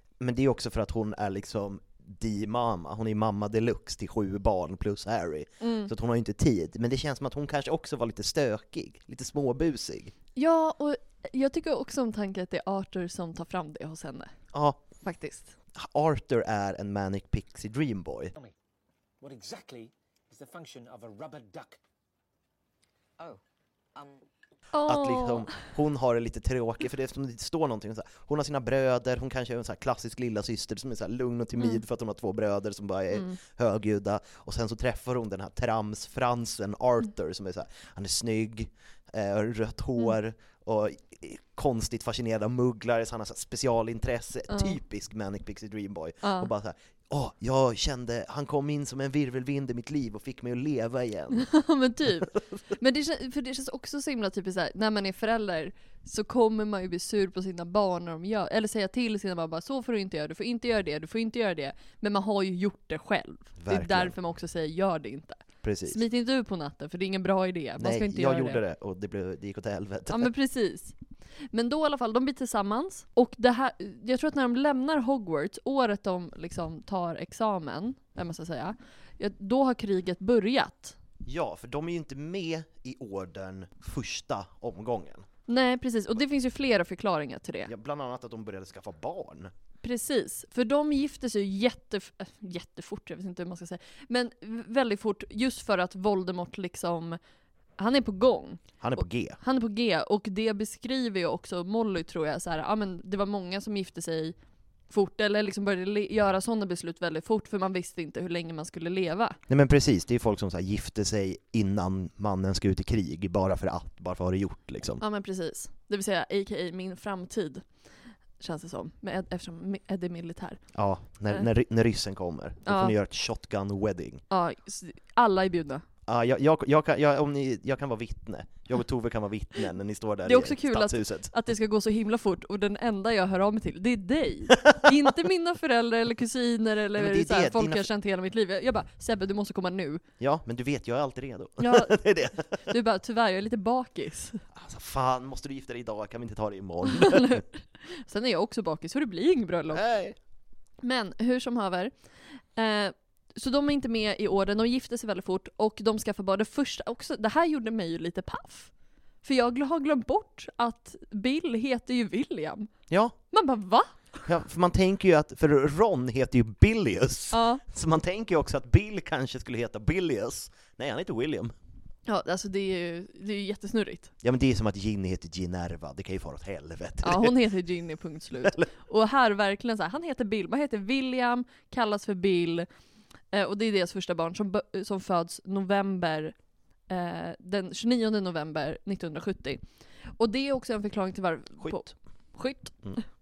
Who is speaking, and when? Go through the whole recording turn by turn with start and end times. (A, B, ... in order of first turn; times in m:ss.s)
0:00.2-0:10.1 A
0:05.6-0:05.9 B
0:10.4-0:14.3 B
0:14.5-0:14.8 A
0:15.0-0:15.5 B
0:15.7-0:18.3 A
0:19.2-0:21.8 C
0:24.7-0:25.5 B
0:24.8-0:51.5 A
0:44.5-0:44.8 B
0:46.2-0:46.5 B
0:51.3-1:08.6 B
1:03.6-1:04.1 A
1:05.6-1:06.0 A
1:07.8-1:10.3 A
1:10.1-1:10.9 B
1:11.5-1:21.0 B
1:21.2-1:25.2 A
1:25.5-1:27.7 B
1:27.7-1:29.5 A
1:29.8-1:37.2 B
1:37.8-1:38.6 B
1:38.8-1:39.4 A
1:39.4-1:44.3 B
1:44.9-1:49.4 B
1:49.5-1:55.0 A
1:55.0-1:57.6 B
1:58.4-2:00.6 B
2:00.7-2:04.2 A
2:02.6-2:02.9 B
2:04.3-2:05.8 B
2:06.1-2:11.3 A
2:10.2-2:20.0 B
2:14.6-2:15.1 A
2:16.9-2:17.8 A
2:20.2-2:22.6 A
2:21.6-2:24.4 B
2:24.5-2:27.4 A
2:26.9-2:29.8 B
2:29.7-2:30.2 A
2:30.8-2:31.9 B
2:32.6-2:38.7 B
2:39.2-2:42.7 B
2:42.9-2:43.1 A
2:43.3-2:43.9 B
2:44.2-2:51.5 A
2:47.3-2:47.6 B
2:52.0-2:54.1 B
2:54.2-2:57.4 A
2:57.0-3:02.7 B
2:58.4-2:58.7 A
3:03.3-3:06.3 B
3:06.9-3:09.6 B
3:10.2-3:13.0 B
3:11.6-3:11.9 A